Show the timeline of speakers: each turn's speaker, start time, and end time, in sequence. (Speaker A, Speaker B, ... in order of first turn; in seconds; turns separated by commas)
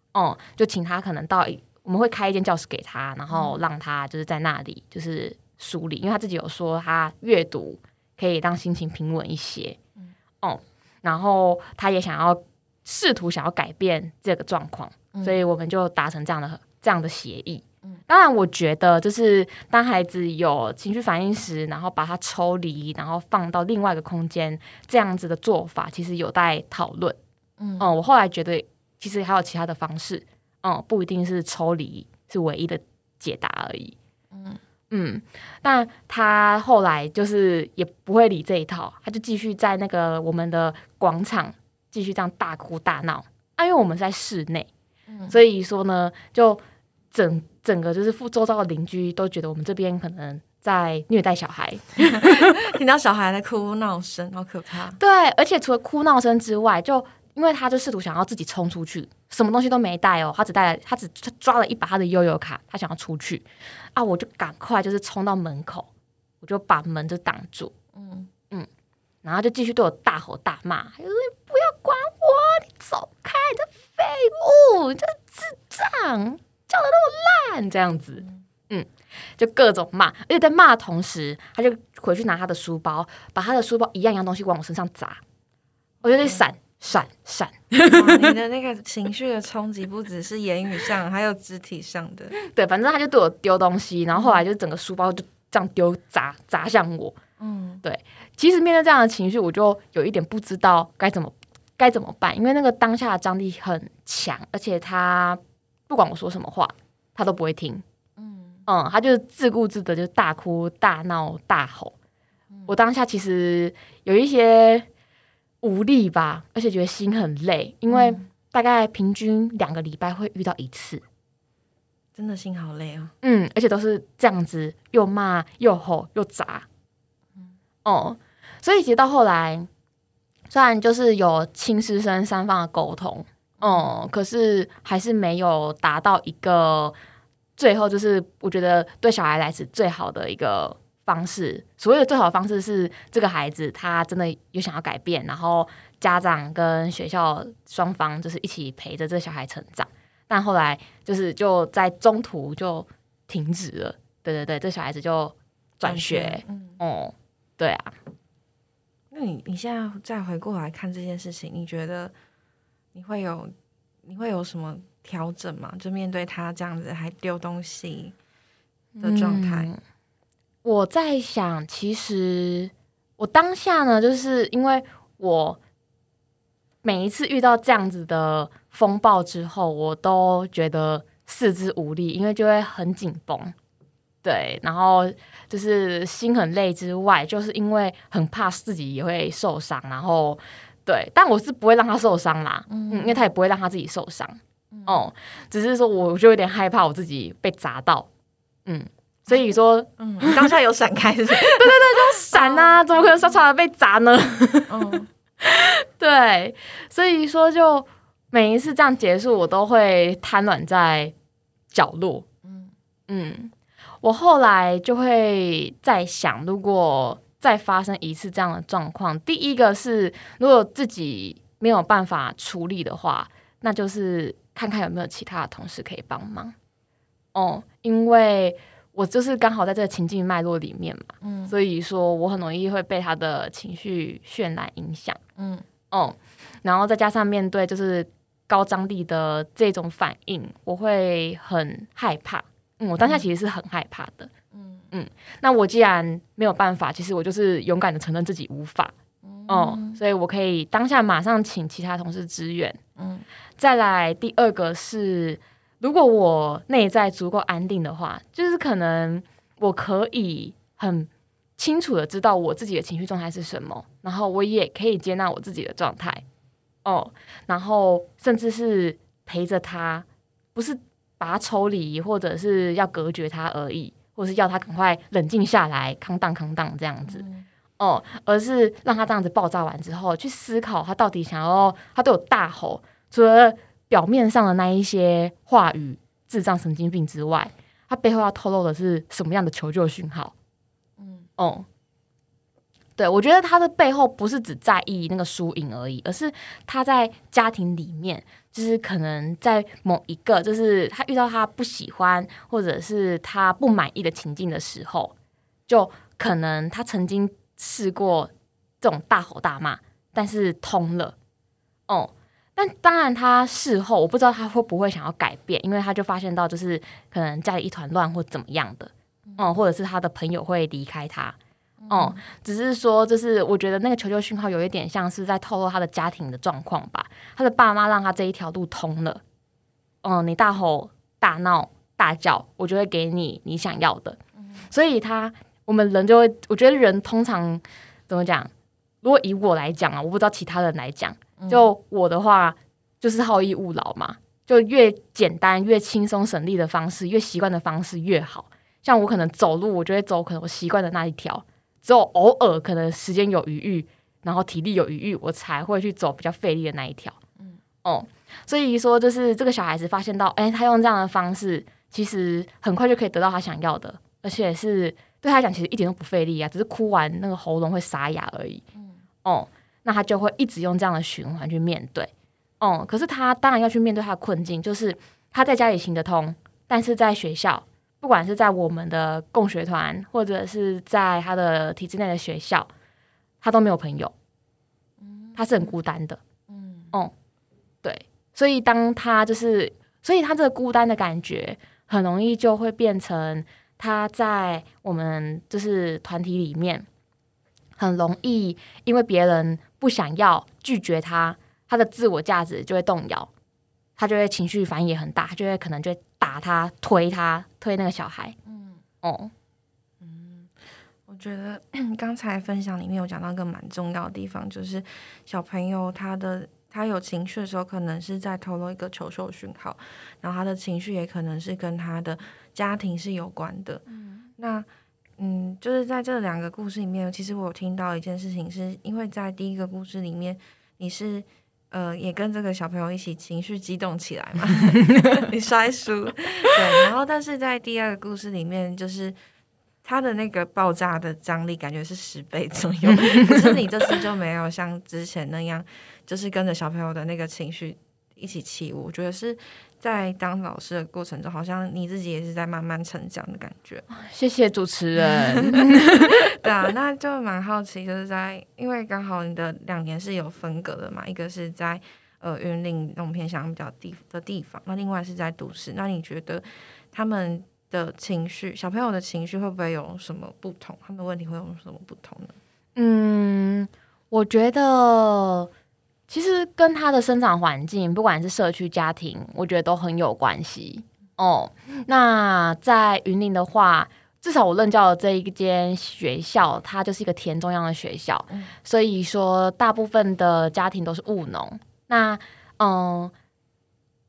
Speaker A: 0.1-9.8, Speaker B: 3.3-3.6, Speaker A: 10.4-27.2, Speaker B: 15.1-15.4, Speaker B: 27.6-27.9, Speaker A: 27.8-34.0, Speaker B: 34.3-34.6, Speaker A: 34.9-44.7, Speaker B: 45.1-45.4, Speaker A: 45.3-46.6, Speaker A: 47.1-52.6, Speaker B: 52.0-55.0, Speaker A: 55.0-65.9, Speaker A: 66.4-67.7, Speaker B: 67.9-68.3, Speaker A: 69.2-78.9, Speaker A: 79.4-85.2, Speaker A: 86.0-88.3, Speaker B: 86.0-86.4, Speaker B: 87.8-92.3, Speaker A: 92.3-97.2, Speaker B: 94.1-94.4, Speaker B: 97.4-97.8, Speaker A: 97.8-107.8, Speaker B: 108.2-108.6, Speaker A: 108.7-111.9, Speaker A: 112.7-114.8, Speaker A: 115.6-121.0, Speaker B: 117.9-118.2, Speaker B: 122.2-123.1, Speaker A: 123.2-126.7, Speaker A: 127.8-129.7, Speaker A: 130.5-136.9, Speaker B: 133.6-133.9, Speaker A: 137.6-157.9, Speaker B: 155.8-156.8, Speaker B: 159.1-162.1, Speaker B: 162.9-163.5, Speaker B: 164.0-168.1, Speaker A: 169.0-169.8, Speaker B: 169.0-169.7, Speaker A: 170.6-175.6, Speaker A: 176.8-183.5, Speaker A: 184.2-198.1, Speaker B: 192.7-193.2, Speaker B: 194.7-195.0, Speaker A: 198.7-200.5, Speaker B: 200.0-203.4, Speaker A: 201.4-211.1, Speaker B: 204.7-205.1, Speaker A: 211.7-212.2, Speaker B: 212.4-212.7, Speaker A: 213.1-213.5, Speaker A: 214.0-226.5, Speaker A: 227.3-235.2, Speaker B: 231.2-231.5, Speaker B: 235.4-235.6, Speaker A: 235.9-244.3, Speaker B: 244.5-244.8, Speaker A: 244.9-248.9, Speaker B: 249.2-250.0, Speaker A: 249.5-252.8, Speaker B: 253.0-253.2, Speaker A: 253.6-266.2, Speaker A: 266.8-277.2, Speaker B: 277.0-277.4, Speaker A: 277.8-290.3, Speaker B: 291.0-291.3, Speaker A: 291.4-291.6, Speaker A: 293.0-305.1, Speaker A: 305.7-311.1, Speaker A: 311.9-321.4, Speaker B: 321.8-322.2, Speaker A: 321.9-329.2, Speaker A: 330.0-334.2, Speaker A: 334.7-338.5, Speaker A: 339.0-357.2, Speaker B: 341.4-341.7, Speaker A: 357.8-368.6, Speaker B: 368.7-369.0, Speaker A: 369.2-382.7, Speaker A: 383.4-384.1, Speaker B: 385.0-385.7, Speaker A: 385.4-386.2, Speaker B: 386.5-386.9, Speaker A: 387.8-396.9, Speaker A: 397.8-403.3, Speaker A: 404.0-408.4, Speaker B: 408.4-408.8, Speaker A: 409.0-409.3, Speaker B: 410.0-410.6, Speaker B: 411.1-424.7, Speaker B: 425.2-439.1, Speaker A: 434.7-435.2, Speaker B: 439.8-453.8, Speaker A: 443.0-443.4, Speaker A: 453.9-456.4, Speaker B: 455.0-472.4, Speaker A: 472.8-475.5, Speaker A: 476.1-493.1